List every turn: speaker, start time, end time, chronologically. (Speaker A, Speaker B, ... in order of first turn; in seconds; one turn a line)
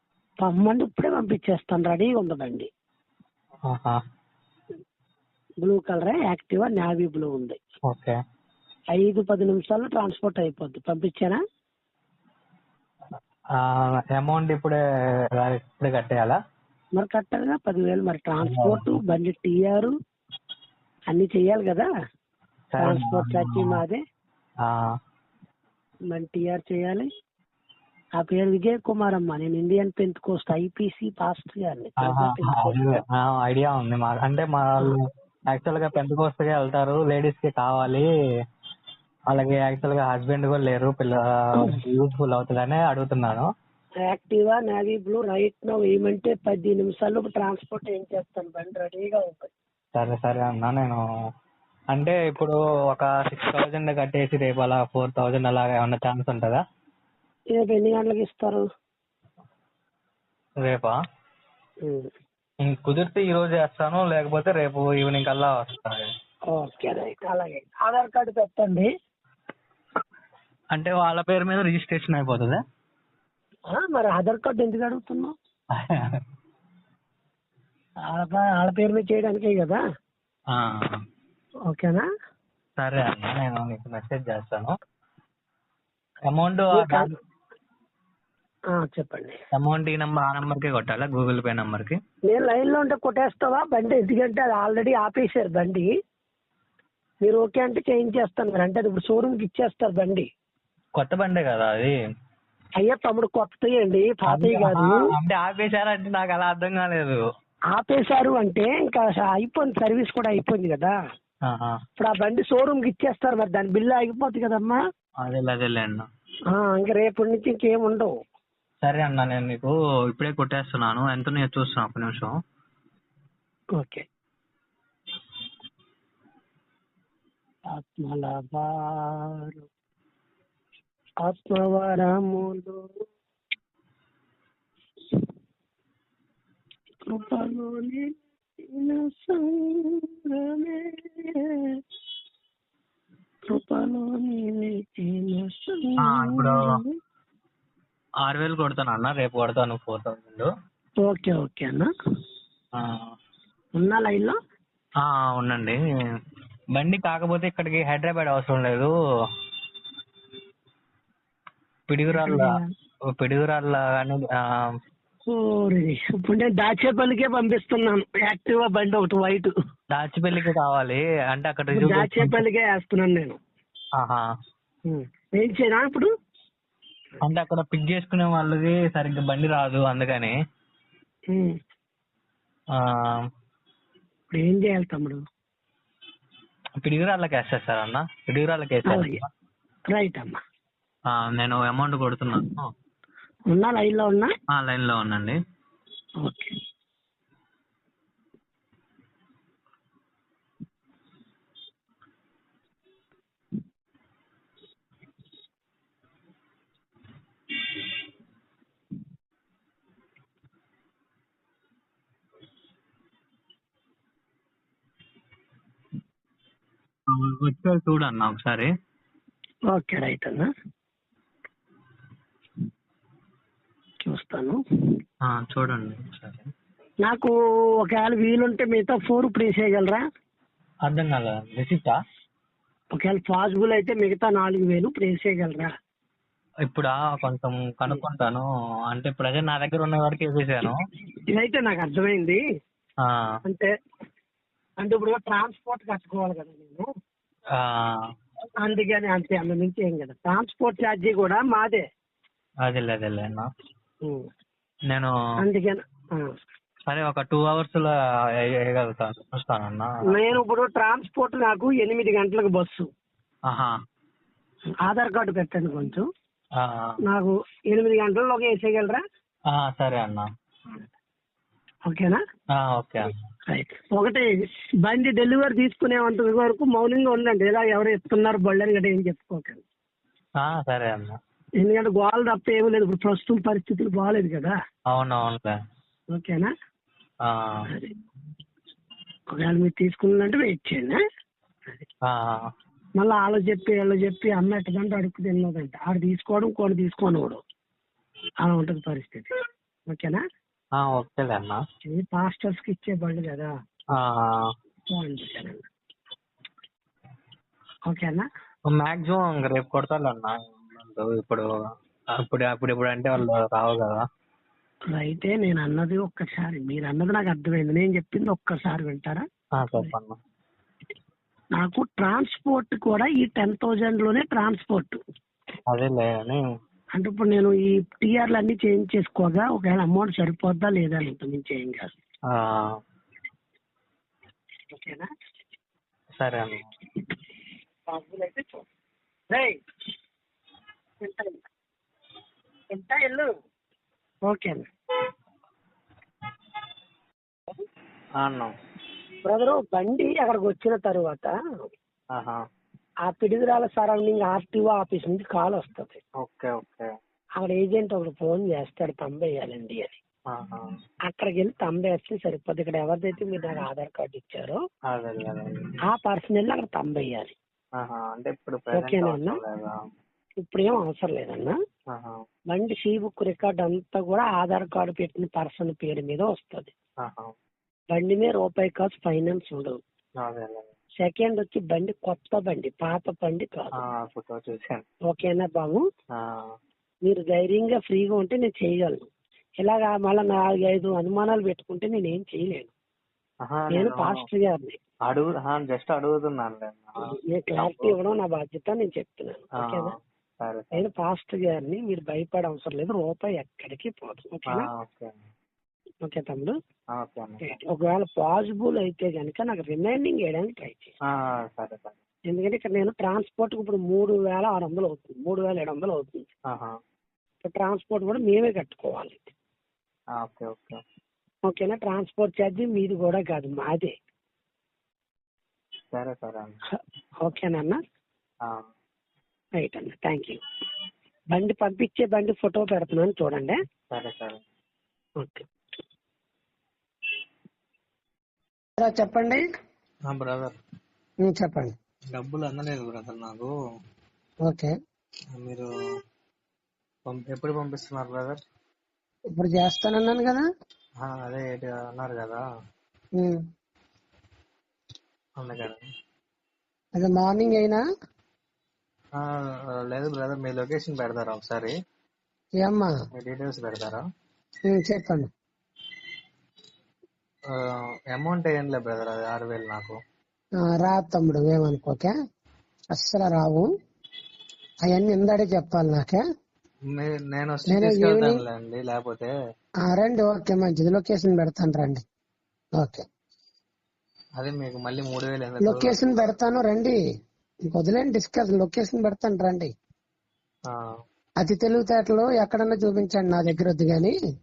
Speaker A: 0.4-2.7
Speaker B: 3.7-4.0
Speaker A: 5.6-7.6
Speaker B: 7.9-8.2
Speaker A: 8.9-11.4
Speaker B: 13.6-14.8
Speaker B: 15.4-16.4
Speaker A: 17.0-19.9
Speaker B: 18.4-19.0
Speaker A: 21.1-21.9
Speaker B: 22.7-23.8
Speaker A: 22.8-24.0
Speaker A: 26.1-27.1
Speaker A: 28.2-33.0
Speaker B: 32.0-38.1
Speaker B: 39.3-43.5
Speaker A: 44.0-49.5
Speaker B: 50.0-51.0
Speaker B: 51.9-56.6
Speaker A: 57.5-58.6
Speaker B: 60.6-60.9
Speaker A: 61.8-62.1
Speaker B: 62.6-66.1
Speaker A: 66.5-68.9
Speaker B: 70.7-72.6
Speaker A: 73.7-75.3
Speaker B: 75.8-76.2
Speaker A: 78.1-79.8
Speaker B: 80.5-81.0
Speaker A: 81.7-82.1
Speaker B: 82.8-84.7
Speaker B: 86.3-87.1
Speaker A: 86.7-87.1
Speaker A: 88.7-89.4
Speaker B: 89.6-92.0
Speaker A: 92.3-95.9
Speaker A: 97.2-100.3
Speaker B: 101.0-101.9
Speaker A: 102.8-105.0
Speaker B: 104.3-107.2
Speaker A: 107.7-111.0
Speaker B: 111.5-111.8
Speaker A: 112.0-114.8
Speaker B: 115.2-116.1
Speaker A: 116.5-118.1
Speaker B: 118.8-122.3
Speaker A: 123.8-124.0
Speaker A: 127.7-129.7
Speaker A: 131.2-132.8
Speaker A: 137.1-141.8
Speaker A: 143.5-146.9
Speaker B: 146.1-146.6
Speaker B: 148.2-150.5
Speaker A: 151.0-151.9
Speaker B: 152.8-153.1
Speaker A: 153.8-154.4
Speaker B: 155.0-155.8
Speaker B: 156.8-158.9
Speaker B: 161.9-162.5
Speaker A: 162.1-162.7
Speaker B: 163.1-164.7
Speaker A: 165.3-169.5
Speaker B: 169.9-172.4
Speaker A: 171.7-173.4
Speaker B: 174.0-174.2
Speaker A: 174.9-176.1
Speaker B: 177.2-180.4
Speaker A: 181.3-181.6
Speaker B: 182.8-183.2
Speaker A: 184.3-185.2
Speaker B: 186.8-189.3
Speaker A: 188.9-189.2
Speaker A: 189.9-190.4
Speaker B: 191.1-192.7
Speaker A: 193.5-194.3
Speaker B: 194.5-195.4
Speaker A: 196.2-196.5
Speaker B: 217.1-218.7
Speaker A: 219.7-220.5
Speaker A: 224.0-224.6
Speaker B: 225.3-226.5
Speaker A: 227.0-230.0
Speaker B: 230.9-232.0
Speaker A: 232.9-235.7
Speaker B: 236.7-240.8
Speaker A: 241.3-242.4
Speaker B: 243.0-243.3
Speaker A: 243.5-243.7
Speaker A: 244.8-246.9
Speaker B: 247.6-247.9
Speaker A: 248.6-251.8
Speaker B: 252.6-253.5
Speaker A: 255.4-256.3
Speaker B: 256.9-257.9
Speaker B: 258.6-260.4
Speaker A: 260.1-262.9
Speaker A: 264.8-266.1
Speaker B: 266.6-267.0
Speaker A: 267.1-269.0
Speaker B: 269.5-270.3
Speaker A: 271.9-272.2
Speaker B: 272.6-273.1
Speaker A: 273.5-274.3
Speaker A: 274.8-279.6
Speaker B: 280.4-281.2
Speaker A: 281.6-284.6
Speaker B: 284.9-285.5
Speaker A: 286.1-286.5
Speaker B: 287.3-287.6
Speaker A: 287.7-287.9
Speaker A: 289.3-291.0
Speaker B: 292.1-292.5
Speaker A: 293.0-297.4
Speaker A: 298.4-299.3
Speaker A: 299.9-300.2
Speaker B: 300.8-301.6
Speaker A: 301.9-303.5
Speaker B: 304.0-304.5
Speaker A: 304.9-305.7
Speaker A: 307.9-308.2
Speaker B: 308.7-311.5
Speaker B: 312.2-314.0
Speaker A: 314.9-319.9
Speaker B: 319.6-320.2
Speaker A: 321.6-325.0
Speaker B: 325.7-326.5
Speaker A: 327.0-331.9
Speaker B: 332.3-332.8
Speaker A: 334.7-335.1
Speaker B: 336.2-336.7
Speaker A: 337.9-338.7
Speaker A: 339.3-339.6
Speaker A: 341.0-341.4
Speaker A: 342.7-343.3
Speaker A: 344.2-344.6
Speaker B: 348.2-348.5
Speaker A: 349.2-351.3
Speaker B: 352.1-352.4
Speaker A: 353.1-356.0
Speaker B: 356.2-356.9
Speaker A: 357.4-360.0
Speaker B: 360.3-360.6
Speaker A: 361.1-364.6
Speaker B: 364.9-365.6
Speaker A: 365.9-367.3
Speaker B: 367.8-369.8
Speaker A: 368.7-369.4
Speaker A: 370.4-371.6
Speaker B: 371.9-372.2
Speaker A: 372.5-376.7
Speaker B: 377.0-377.3
Speaker A: 377.9-379.8
Speaker B: 380.2-380.7
Speaker A: 381.0-383.8
Speaker B: 383.9-384.8
Speaker A: 385.1-385.8
Speaker A: 387.1-389.0
Speaker A: 389.6-392.7
Speaker B: 393.5-394.2
Speaker A: 393.7-394.8
Speaker B: 395.1-396.9
Speaker A: 397.1-399.9
Speaker B: 397.6-397.9
Speaker B: 400.4-400.9
Speaker A: 400.8-404.7
Speaker B: 404.5-405.2
Speaker A: 406.0-406.5
Speaker B: 406.9-407.6
Speaker A: 407.4-410.9
Speaker B: 411.1-412.0
Speaker A: 412.3-416.3
Speaker A: 417.4-419.3
Speaker B: 420.2-420.8
Speaker A: 421.5-423.9
Speaker B: 425.9-426.6
Speaker A: 427.2-427.8
Speaker A: 429.6-430.4
Speaker A: 431.3-433.6
Speaker B: 433.9-434.4
Speaker A: 435.2-435.4
Speaker A: 438.8-439.4
Speaker B: 440.1-440.6
Speaker A: 441.2-441.7
Speaker B: 442.1-443.5
Speaker A: 444.5-444.7
Speaker B: 445.4-445.7
Speaker B: 447.1-448.4
Speaker A: 449.4-450.4
Speaker B: 451.0-452.4
Speaker B: 455.4-455.8
Speaker A: 457.0-457.8
Speaker B: 459.2-461.7
Speaker A: 462.6-462.9
Speaker B: 463.1-464.0
Speaker A: 464.7-465.3
Speaker B: 468.1-470.0
Speaker A: 470.8-472.1
Speaker A: 472.9-473.7
Speaker A: 474.9-476.2
Speaker B: 476.9-479.3
Speaker A: 477.7-478.4
Speaker A: 479.9-482.0
Speaker B: 484.4-486.3
Speaker A: 485.6-486.9
Speaker A: 487.7-489.7
Speaker A: 491.4-494.1